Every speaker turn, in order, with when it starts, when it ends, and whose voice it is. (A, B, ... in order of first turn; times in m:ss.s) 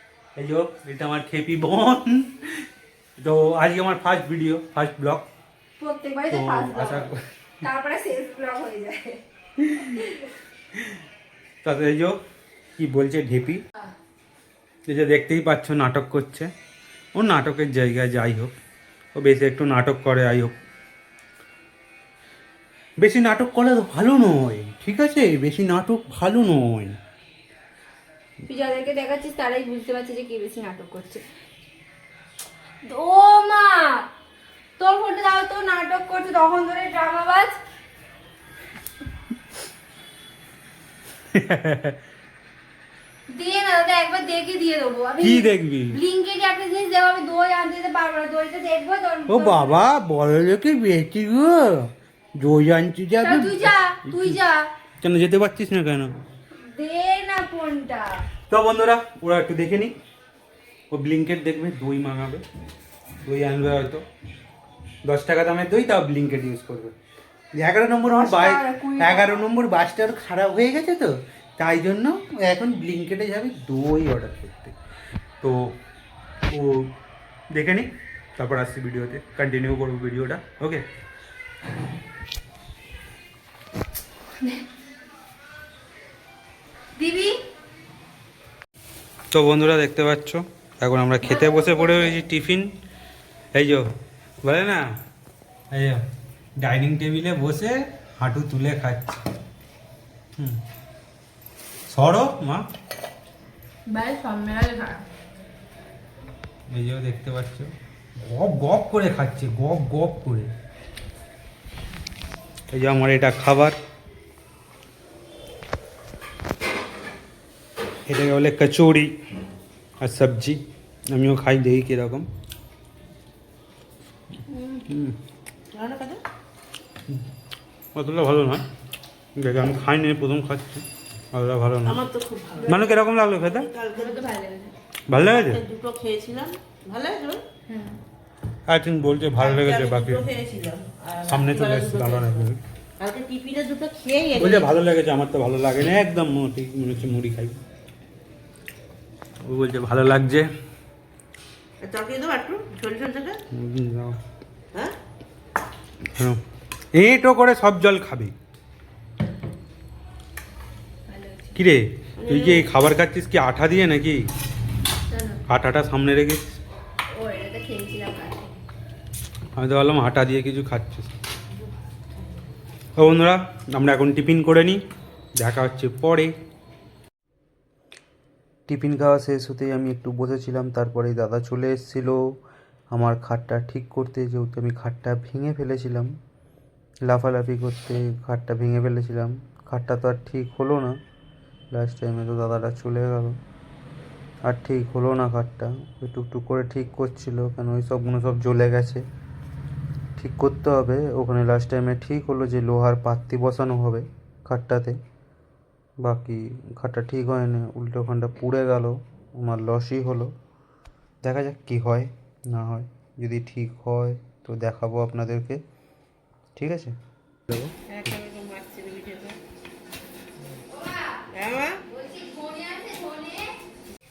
0:00.4-0:02.6 A
0:03.2-0:05.3 A
0:05.8-0:07.1 B
0:06.3-0:07.2 A
0:07.6-0:09.2 B
0:09.6-0:10.1 A
0:09.8-0:10.2 B
0:11.6-0:12.2 A
0:12.8-0:13.6 A
0:14.9-0:16.5 A
0:17.2-0:18.5 A
0:19.2-0:20.6 A
0:23.0-0:27.0 A
0:28.5-0:31.2 B
0:32.8-0:34.1 B
0:34.8-0:37.6 B
0:41.3-0:42.0 A
0:43.3-0:49.8 B
0:45.2-0:46.0 A
0:49.3-0:54.4 A
0:53.2-0:54.7 B
0:55.0-0:56.1 A
0:56.6-0:58.3 B
0:58.5-0:59.9 A
1:00.9-1:02.4 A
1:03.2-1:04.1 A
1:05.0-1:07.0 A
1:07.5-1:14.8 A
1:08.2-1:09.4 B
1:15.4-1:15.8 A
1:16.5-1:16.9 A
1:17.5-1:20.8 A
1:27.0-1:27.4 B
1:29.3-1:32.7 A
1:31.5-1:32.0 B
1:33.5-1:33.8 A
1:34.4-1:34.9 A
1:35.7-1:36.0 A
1:36.6-1:39.2 A
1:41.9-1:42.7 A
1:43.9-1:45.0 B
1:46.7-1:50.5 A
1:52.7-1:53.8 A
1:58.1-1:59.1 A
2:00.0-2:02.3 A
2:04.8-2:05.2 A
2:05.7-2:06.2 C
2:08.0-2:08.6 A
2:09.4-2:12.0 A
2:11.8-2:14.4 C
2:12.6-2:13.7 A
2:14.0-2:14.7 B
2:15.1-2:15.6 A
2:15.1-2:17.4 C
2:17.7-2:18.0 B
2:18.7-2:20.3 A
2:19.4-2:22.5 C
2:21.3-2:22.6 A
2:23.0-2:24.7 C
2:24.4-2:27.6 A
2:29.4-2:30.5 A
2:31.8-2:33.4 C
2:33.5-2:34.2 A
2:36.9-2:38.3 A
2:41.1-2:41.6 B
2:41.6-2:44.3 A
2:42.2-2:42.7 C
2:45.1-2:45.4 B
2:45.5-2:46.6 A
2:47.1-2:48.6 B
2:49.6-2:51.2 A
2:53.0-2:54.8 A
2:55.4-2:56.3 A
2:58.7-3:02.2 A
3:02.9-3:06.1 A
3:07.0-3:11.0 A
3:11.7-3:13.4 A
3:14.4-3:19.0 A
3:20.2-3:25.0 A
3:26.0-3:30.3 A
3:31.2-3:35.6 A
3:36.6-3:37.0 A
3:37.5-3:37.7 A
3:37.9-3:39.4 C
3:40.7-3:41.2 B
3:41.3-3:41.8 C
3:41.9-3:43.5 B